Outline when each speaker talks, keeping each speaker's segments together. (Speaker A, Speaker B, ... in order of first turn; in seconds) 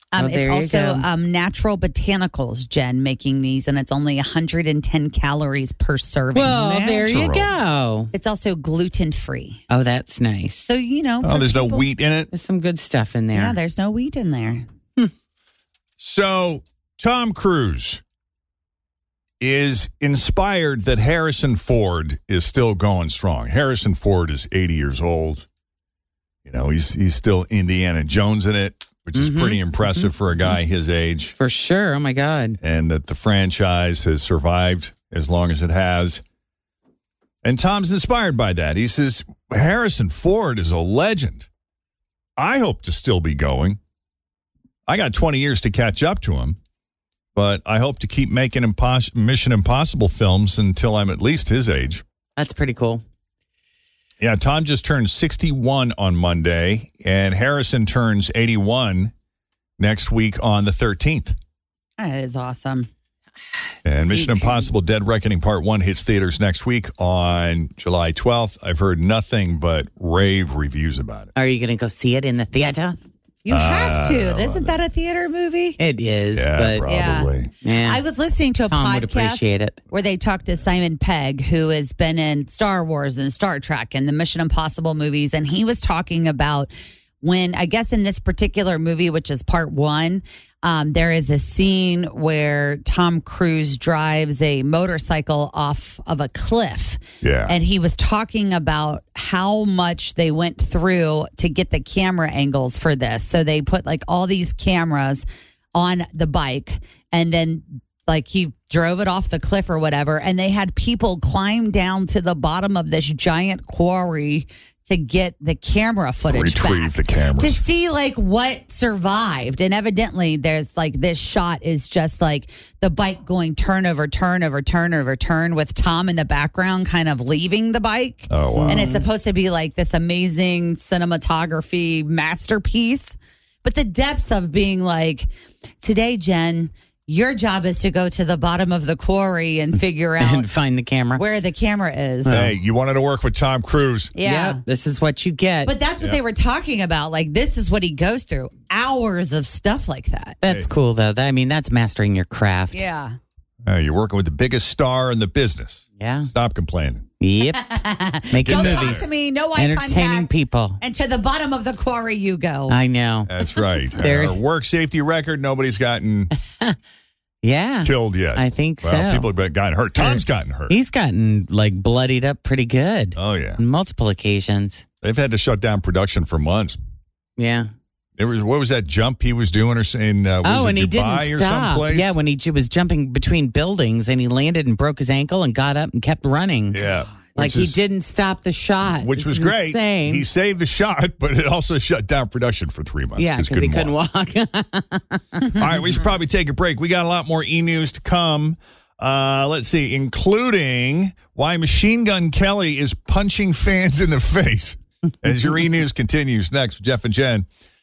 Speaker A: 0.2-6.4, 8.1-9.6, 10.7-11.8, 13.4-14.6, 62.0-62.9, 73.6-75.8, 77.8-79.3, 79.9-116.9, 117.4-135.2, 135.8-140.4, 141.2-142.3, 145.7-150.3, 152.7-153.2, 157.9-160.2, 160.8-162.7
Speaker B: 0.2-1.1, 6.3-8.1, 9.7-10.7, 12.3-13.6, 29.1-30.6, 31.4-32.6, 52.4-53.0, 71.3-73.0, 75.8-76.9, 77.6-78.0, 78.6-79.8, 128.6-129.1, 140.2-141.3, 142.2-142.6, 144.2-145.8, 150.4-152.9, 156.0-156.3, 157.2-160.8, 162.7-163.3, 164.0-164.4, 167.4-169.3, 170.0-174.8, 177.4-177.7, 180.4-186.8, 187.3-190.3, 193.2-195.7
Speaker C: 6.6-7.5, 11.2-12.3, 16.0-18.0, 19.4-25.5, 26.5-31.4, 32.6-36.2, 37.4-41.5, 42.4-43.8, 44.9-46.6, 47.4-52.0, 54.2-59.1, 59.8-61.3, 63.9-71.3, 73.5-74.8, 76.3-77.5, 97.2-97.5, 116.2-117.6, 128.3-128.9, 142.3-144.1, 150.5-150.7, 153.7-157.1, 158.4-159.1, 163.3-166.3, 167.8-170.8, 173.2-173.6, 175.0-176.8, 178.2-182.2, 186.7-187.8, 188.9-193.9, 195.6-207.5